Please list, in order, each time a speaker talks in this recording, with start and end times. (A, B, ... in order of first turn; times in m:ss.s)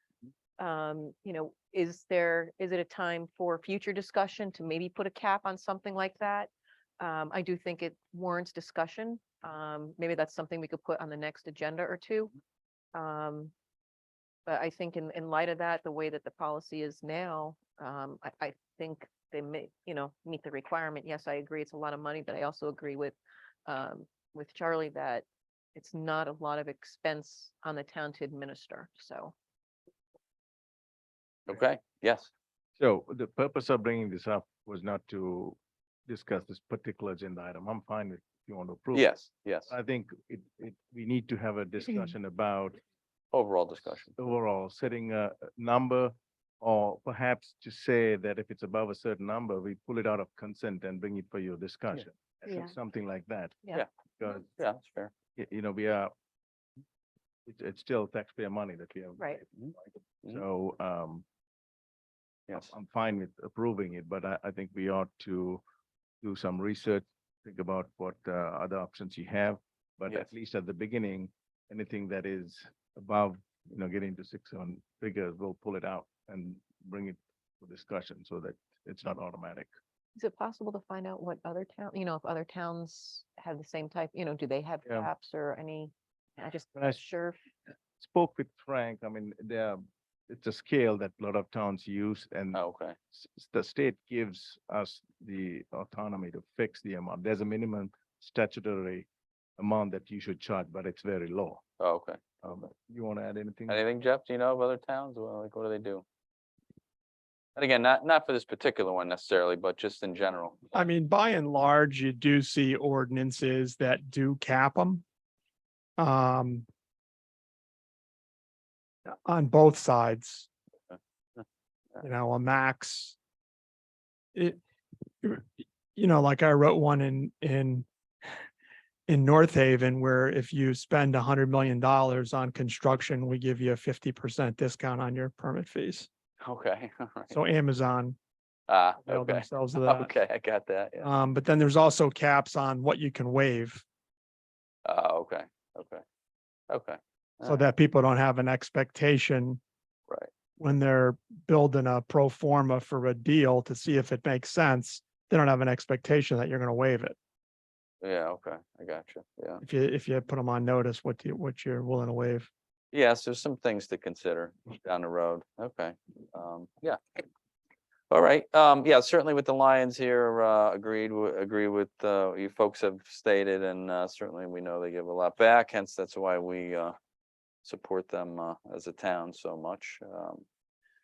0:00.6-0:12.3 A
0:12.9-0:13.5 A
0:14.4-0:29.3 A
0:31.5-0:32.3 B
0:32.8-0:39.1 C
0:38.9-0:39.8 B
0:39.7-0:42.8 C
0:43.3-0:44.1 B
0:44.2-0:53.6 C
0:52.5-0:52.7 A
0:54.2-0:54.5 C
0:54.4-0:55.1 B
0:55.4-0:56.1 C
0:57.4-0:59.5 C
1:00.3-1:01.2 C
1:02.5-1:02.7 B
1:02.5-1:05.6 C
1:06.2-1:19.7 C
1:20.1-1:27.4 A
1:28.0-1:39.1 C
1:32.5-1:33.0 B
1:39.6-1:41.6 C
1:41.8-1:42.2 B
1:42.4-1:43.8 C
1:43.7-1:46.0 B
1:47.6-1:50.9 B
1:50.7-1:55.0 D
1:56.0-1:56.7 D
1:59.1-2:00.5 D
2:02.0-2:03.2 D
2:04.3-2:04.6 D
2:05.9-2:07.9 D
2:09.1-2:16.1 D
2:16.4-2:17.4 B
2:17.3-2:18.2 D
2:18.7-2:21.1 B
2:19.1-2:20.1 D
2:21.0-2:23.8 D
2:24.8-2:26.0 B
2:26.7-2:27.6 B
2:27.4-2:29.6 D
2:30.6-2:37.2 D
2:38.0-2:39.6 B
2:39.6-2:42.5 D
2:42.9-2:47.0 B
2:48.1-2:56.9 B
2:57.6-3:00.4 B